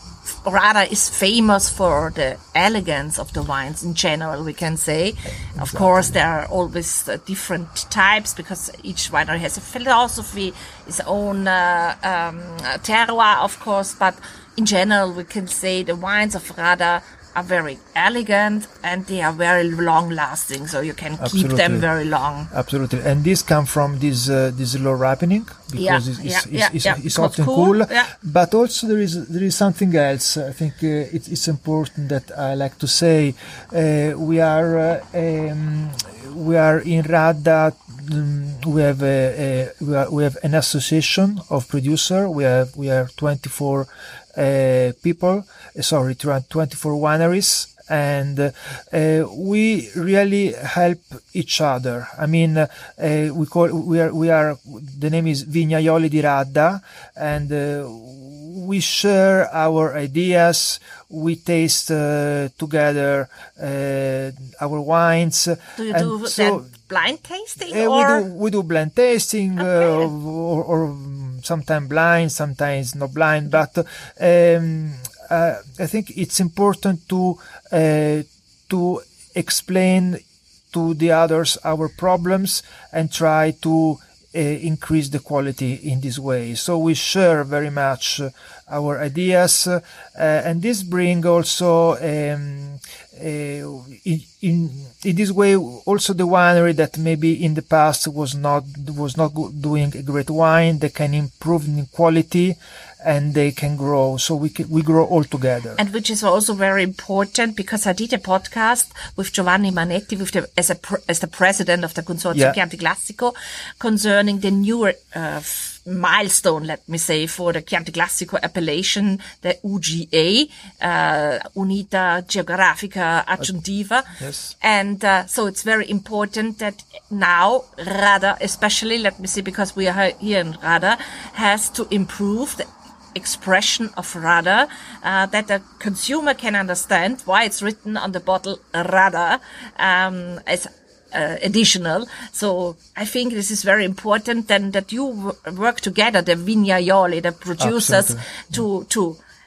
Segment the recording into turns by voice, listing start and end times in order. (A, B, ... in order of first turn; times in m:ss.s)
0:00.3-0:22.5 A
0:05.5-0:06.2 B
0:21.2-0:21.9 B
0:22.5-1:06.7 B
0:25.8-0:28.1 A
1:05.8-1:08.2 A
1:07.6-1:45.8 B
1:09.6-1:10.1 A
1:45.8-2:29.2 A
2:04.2-2:04.5 B
2:27.6-2:28.5 B